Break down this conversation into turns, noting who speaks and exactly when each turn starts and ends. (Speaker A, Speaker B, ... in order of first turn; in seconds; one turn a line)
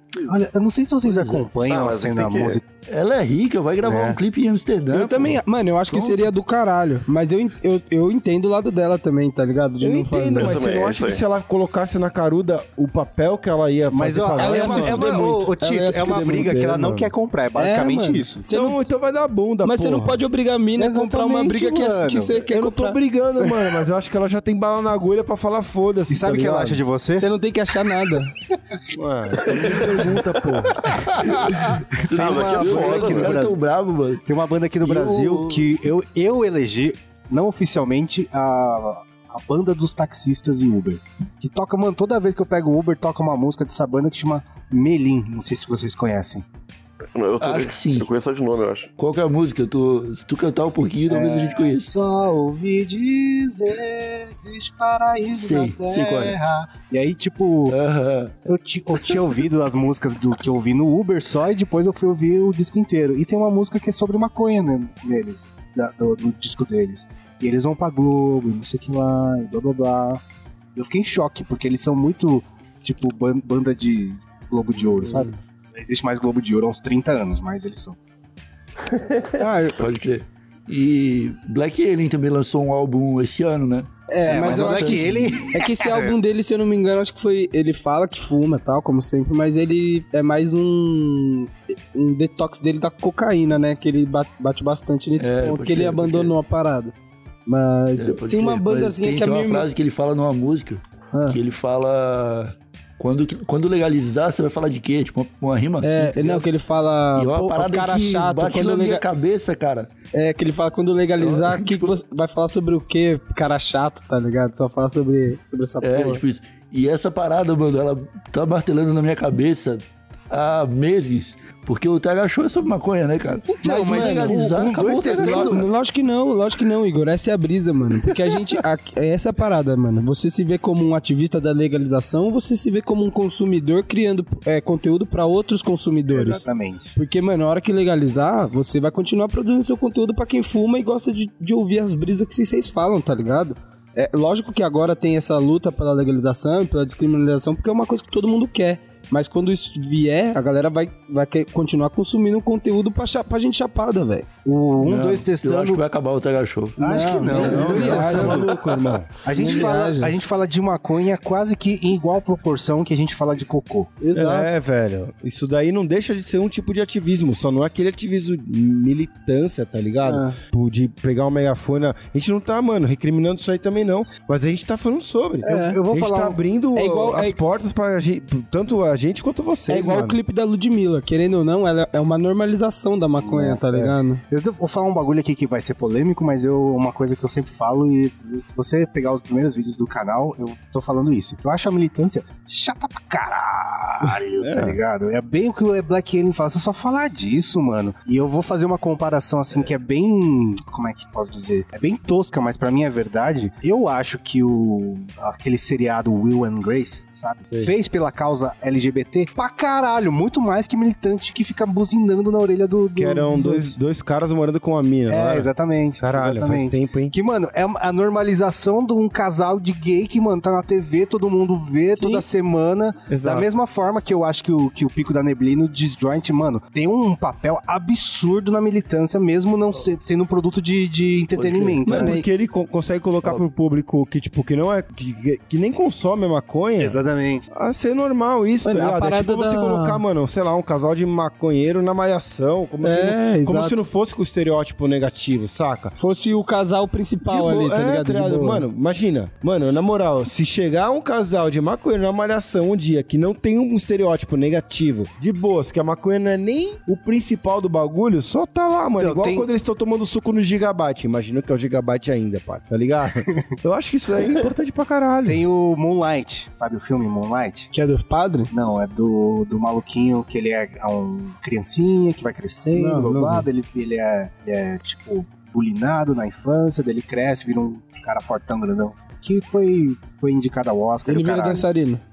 Speaker A: 0.2-2.6
Speaker B: 1.0-1.5
Speaker C: 1.6-2.6
Speaker B: 2.9-6.3
Speaker A: 3.8-4.2
Speaker D: 4.9-10.6
Speaker E: 9.8-15.3
Speaker C: 10.3-11.2
Speaker A: 13.9-18.4
Speaker D: 14.3-16.5
Speaker E: 15.9-17.1
Speaker D: 17.6-18.8
Speaker E: 18.5-20.2
Speaker D: 19.6-23.6
Speaker A: 20.8-22.3
Speaker E: 22.5-26.8
Speaker A: 26.1-27.2
Speaker D: 27.1-28.3
Speaker E: 28.9-31.1
Speaker D: 29.5-30.1
Speaker B: 30.9-34.2
Speaker A: 32.1-33.6
Speaker C: 32.1-33.5
Speaker A: 34.2-46.5
Speaker B: 34.8-35.7
Speaker C: 47.1-48.9
Speaker B: 47.4-48.1
Speaker B: 49.0-51.9
Speaker A: 51.1-57.8
Speaker B: 55.3-56.4
Speaker B: 57.7-58.4
Speaker A: 58.5-70.2
Speaker B: 58.9-59.3
Speaker A: 70.8-78.0
Speaker D: 79.4-79.8
Speaker B: 79.8-85.4
Speaker D: 84.1-96.9
Speaker A: 84.2-86.2
Speaker B: 95.2-96.3
Speaker D: 97.5-99.7
Speaker B: 98.0-106.5
Speaker D: 101.1-101.4
Speaker D: 105.8-109.0
Speaker B: 107.2-109.9
Speaker D: 110.1-116.2
Speaker B: 111.2-112.0
Speaker B: 115.8-125.6
Speaker A: 123.5-125.6
Speaker D: 123.6-124.4
Speaker D: 125.1-136.4
Speaker A: 136.1-136.9
Speaker D: 136.9-154.3
Speaker A: 154.4-155.8
Speaker B: 154.8-158.4
Speaker A: 156.8-158.6
Speaker D: 156.8-158.5
Speaker E: 157.3-159.1
Speaker A: 159.2-163.9
Speaker D: 159.3-160.1
Speaker D: 164.0-164.5
Speaker E: 164.1-180.2
Speaker D: 170.0-170.4
Speaker A: 175.4-176.4
Speaker D: 175.4-175.8
Speaker D: 176.8-177.4
Speaker D: 179.7-184.2
Speaker A: 183.2-213.7
Speaker E: 194.4-194.8
Speaker E: 212.9-217.1
Speaker A: 215.1-232.2
Speaker D: 221.9-222.2
Speaker E: 223.1-223.5
Speaker B: 231.3-231.8
Speaker E: 231.8-237.0
Speaker D: 231.9-232.2
Speaker A: 236.8-237.4
Speaker E: 237.5-246.0
Speaker D: 238.6-240.0
Speaker D: 242.8-243.8
Speaker D: 246.0-248.7
Speaker E: 247.2-265.4
Speaker A: 259.0-259.5
Speaker A: 265.2-267.7
Speaker D: 267.7-268.5
Speaker A: 268.5-281.7
Speaker D: 272.7-273.5
Speaker D: 281.1-282.0